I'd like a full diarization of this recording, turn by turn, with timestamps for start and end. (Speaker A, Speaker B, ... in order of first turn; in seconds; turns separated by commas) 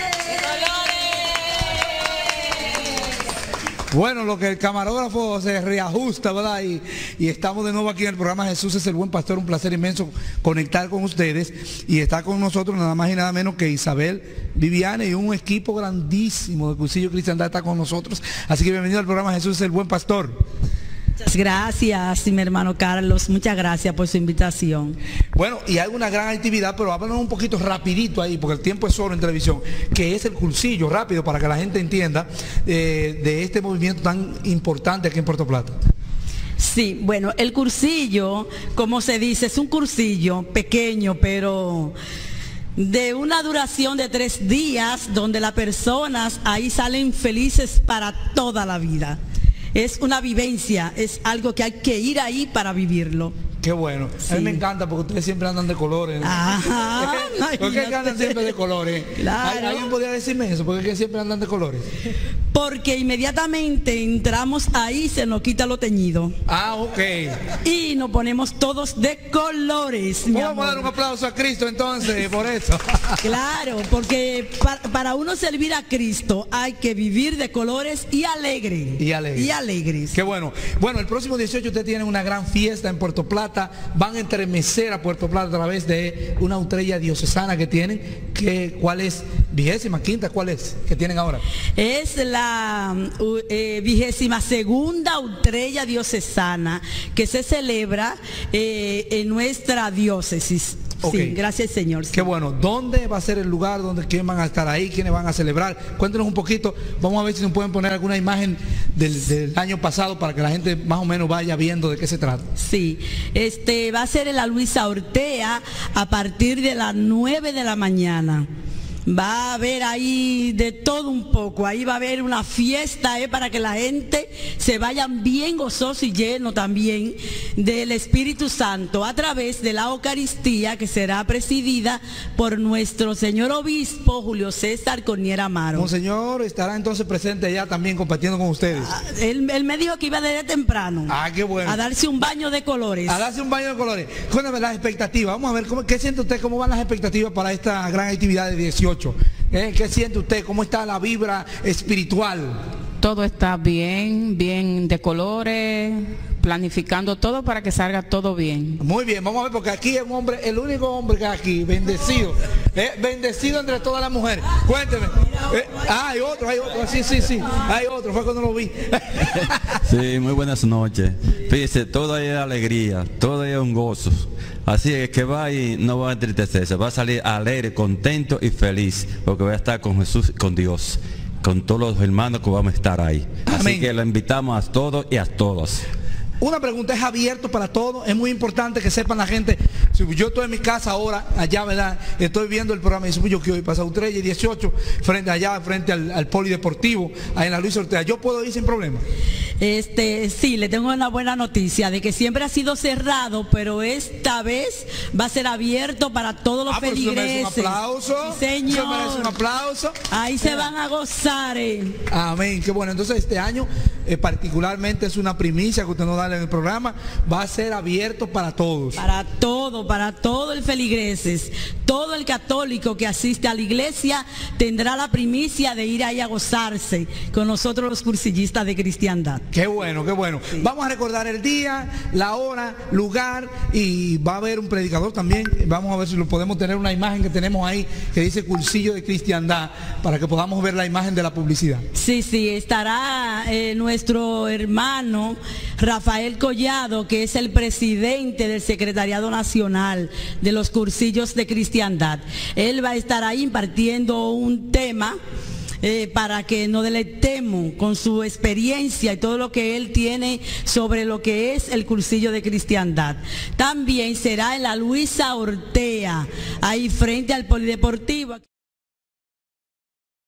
Speaker A: 0.4-1.0, Speaker B: 3.9-20.4, Speaker A: 21.2-25.0, Speaker B: 25.3-35.8, Speaker A: 36.6-41.9, Speaker A: 42.8-49.2, Speaker A: 49.7-53.4, Speaker B: 53.6-61.9, Speaker A: 54.3-54.6, Speaker A: 56.2-58.5, Speaker A: 59.2-59.9, Speaker A: 62.5-66.3, Speaker B: 66.5-67.4, Speaker A: 67.6-70.9, Speaker B: 70.3-73.2, Speaker A: 73.2-80.2, Speaker B: 79.0-79.5, Speaker B: 80.1-91.4, Speaker A: 91.8-102.3, Speaker B: 101.0-101.4, Speaker B: 102.1-112.5, Speaker A: 112.6-118.5, Speaker A: 119.0-135.9, Speaker B: 135.7-138.9, Speaker A: 138.7-143.2, Speaker B: 141.1-141.8, Speaker B: 143.1-152.6, Speaker C: 153.0-158.8, Speaker B: 158.8-169.8, Speaker D: 169.8-185.8, Speaker B: 183.4-183.9, Speaker B: 186.4-199.0, Speaker A: 199.6-209.4, Speaker B: 206.7-209.9, Speaker A: 210.1-211.9, Speaker B: 212.1-219.0, Speaker A: 219.0-229.4, Speaker B: 229.5-241.8, Speaker A: 241.9-255.2, Speaker A: 255.8-268.4